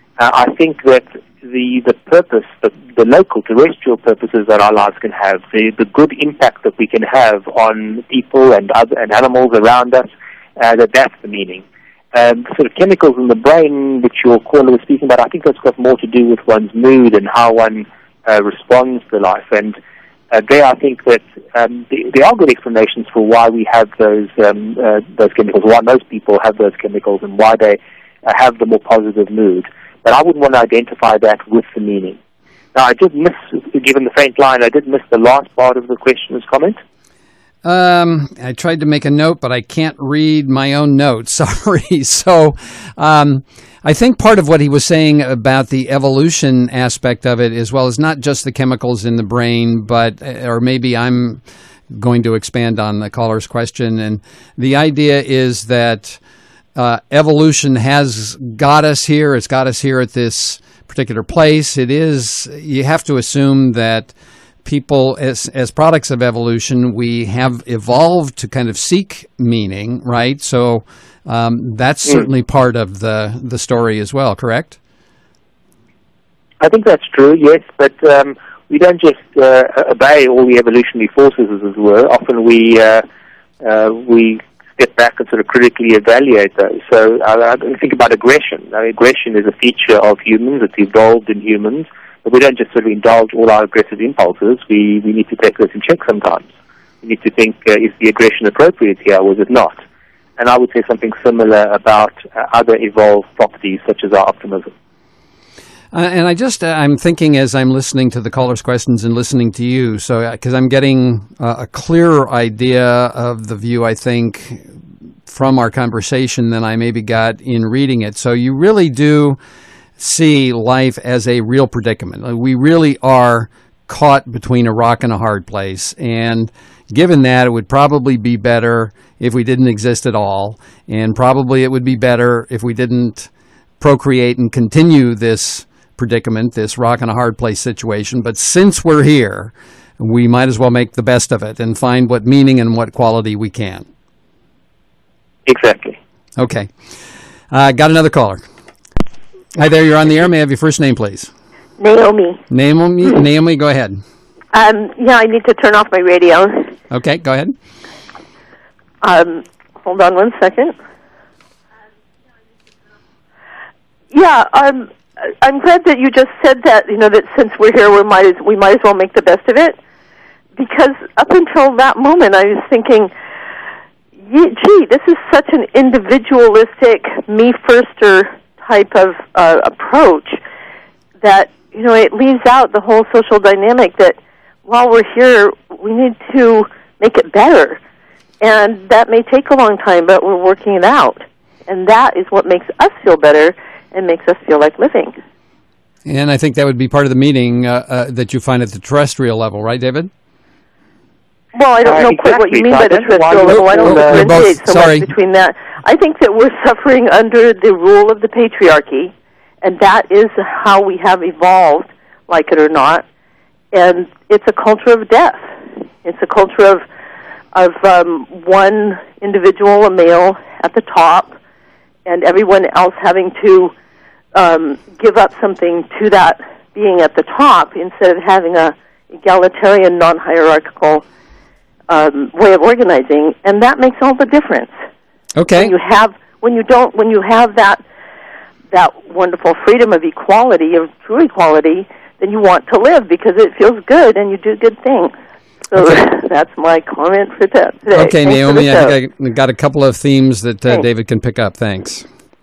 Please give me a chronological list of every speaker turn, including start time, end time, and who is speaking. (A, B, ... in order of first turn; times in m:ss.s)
0:00.2-0:19.8 A
0:20.3-0:32.2 A
0:32.7-0:36.8 A
0:37.6-0:56.2 B
0:56.8-1:04.1 B
1:04.6-1:14.8 B
1:16.6-1:23.0 A
1:23.6-1:36.5 A
1:37.0-1:39.8 A
1:40.4-1:44.7 A
1:45.9-1:54.6 B
1:55.3-1:59.4 B
2:00.0-2:23.9 B
2:25.4-2:26.0 A
2:26.4-2:26.7 B
2:27.5-2:28.4 B
2:29.5-2:31.3 B
2:31.8-2:32.4 C
2:32.5-2:34.0 B
2:34.5-2:36.7 C
2:36.9-2:37.5 B
2:39.0-2:40.7 C
2:44.1-2:44.9 C
2:45.4-2:49.8 C
2:50.6-2:53.1 C
2:54.3-3:00.4 C
3:01.2-3:07.8 C
3:08.4-3:15.2 C
3:16.0-3:20.1 B
3:21.5-3:33.0 C
3:21.8-3:24.4 A
3:23.7-3:25.1 B
3:33.7-3:35.4 C
3:36.0-3:36.8 C
3:37.5-3:41.3 C
3:42.0-3:43.7 C
3:44.3-3:51.0 C
3:51.9-3:54.7 C
3:55.4-3:55.7 B
3:55.6-3:57.8 C
3:58.7-4:05.1 C
4:05.7-4:08.9 C
4:05.7-4:06.0 B
4:07.9-4:12.0 B